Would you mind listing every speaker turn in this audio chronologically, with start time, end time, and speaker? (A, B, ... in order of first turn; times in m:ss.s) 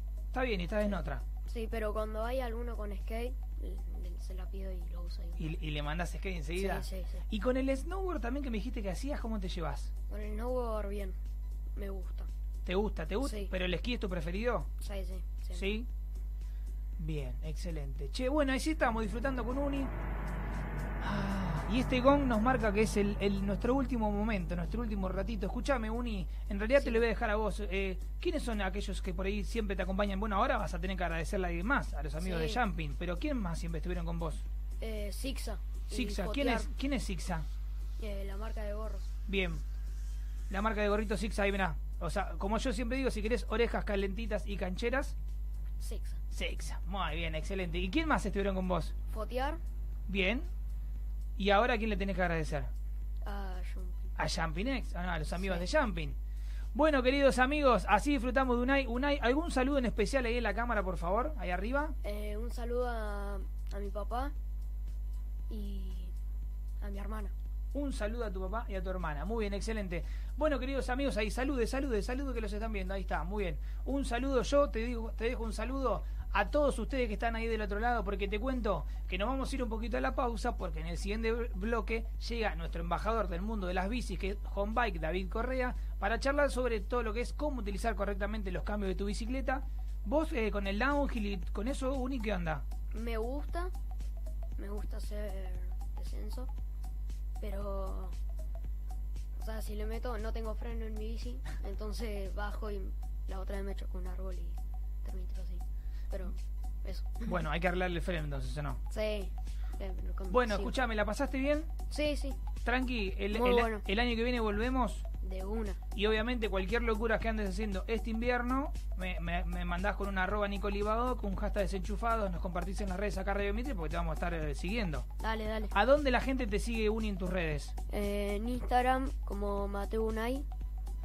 0:00.3-0:01.2 A
0:00.8-0:05.6 B
0:05.4-0:09.9 A
0:06.6-0:07.2 B
0:10.1-0:11.2 B
0:11.8-0:12.3 B
0:12.6-0:14.7 A
0:13.2-0:13.5 B
0:14.8-0:15.7 B
0:15.5-0:15.9 A
0:17.0-0:19.9 A
0:21.0-0:34.4 A
0:26.8-0:27.0 B
0:32.2-0:32.6 B
0:34.8-0:36.7 B
0:35.9-0:37.5 A
0:38.0-0:39.1 B
0:39.3-0:39.6 A
0:40.5-0:45.2 A
0:45.8-0:46.2 B
0:46.3-0:48.9 A
0:49.1-0:49.6 B
0:50.1-0:50.5 A
0:51.4-0:52.7 A
0:53.2-0:54.1 B
0:54.2-0:56.2 A
0:55.4-0:55.6 B
0:56.7-1:02.0 A
1:02.0-1:04.3 B
1:05.5-1:06.1 B
1:06.8-1:07.3 B
1:07.7-1:32.6 A
1:32.9-1:33.7 B
1:34.6-1:36.5 B
1:37.4-1:38.1 B
1:39.4-1:47.3 B
1:47.2-1:48.8 A
1:48.9-1:50.7 B
1:50.3-1:51.7 A
1:51.9-1:52.4 B
1:52.6-1:55.0 A
1:53.3-1:53.8 B
1:55.2-1:55.8 B
1:55.9-2:05.1 A
2:05.2-2:05.7 B
2:05.7-2:07.7 A
2:07.9-2:10.4 B